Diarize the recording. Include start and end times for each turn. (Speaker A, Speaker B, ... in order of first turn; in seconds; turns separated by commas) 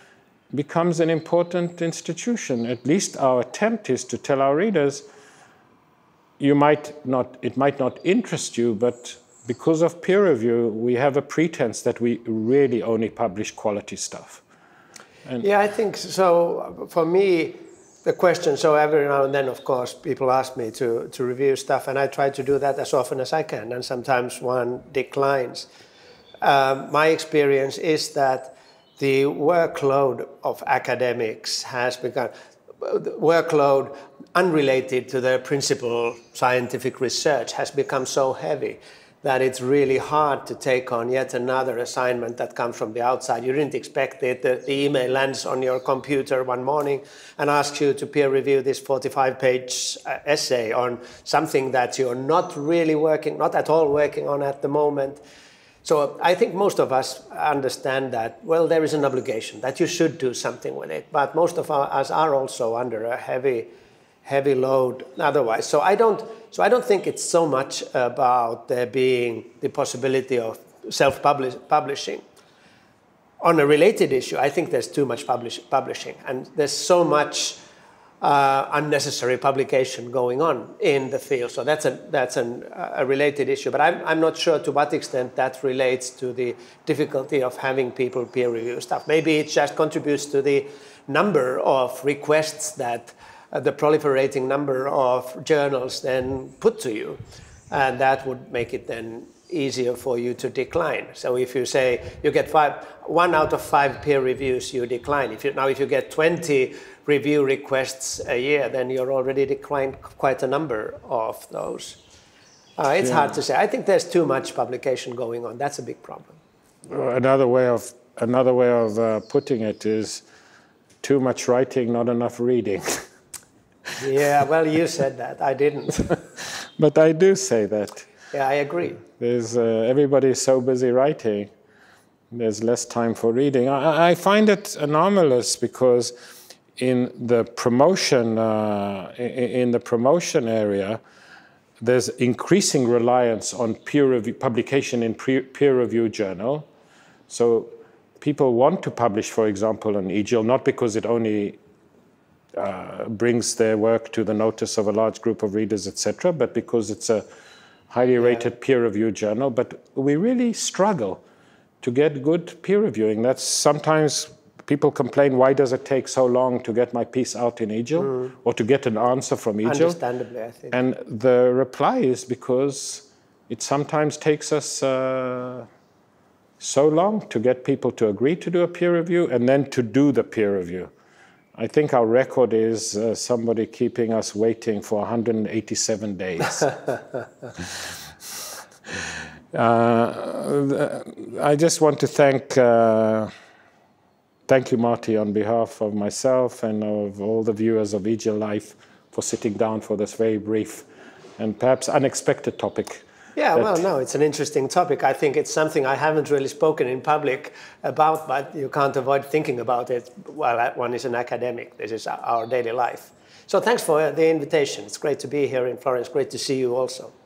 Speaker A: 0.5-5.0, Speaker A: 6.4-14.4, Speaker B: 15.4-25.7, Speaker B: 26.4-55.2, Speaker B: 55.8-63.7, Speaker B: 64.2-72.2, Speaker B: 73.4-77.6, Speaker B: 78.2-112.0, Speaker B: 112.8-116.4, Speaker A: 113.0-113.3, Speaker A: 116.9-120.2, Speaker A: 121.0-123.0, Speaker B: 124.0-126.2, Speaker A: 126.4-128.1, Speaker B: 128.3-129.0, Speaker A: 129.2-131.5, Speaker A: 132.3-136.1, Speaker A: 136.8-141.0, Speaker A: 141.8-146.7, Speaker A: 147.3-151.6, Speaker A: 152.6-157.2, Speaker A: 157.9-161.2, Speaker A: 161.8-170.0, Speaker B: 169.7-170.8, Speaker A: 170.7-175.7, Speaker A: 176.6-180.9, Speaker A: 181.6-186.7, Speaker A: 189.5-193.3, Speaker A: 194.5-200.9, Speaker A: 201.4-203.1, Speaker B: 203.4-217.1, Speaker A: 203.6-203.8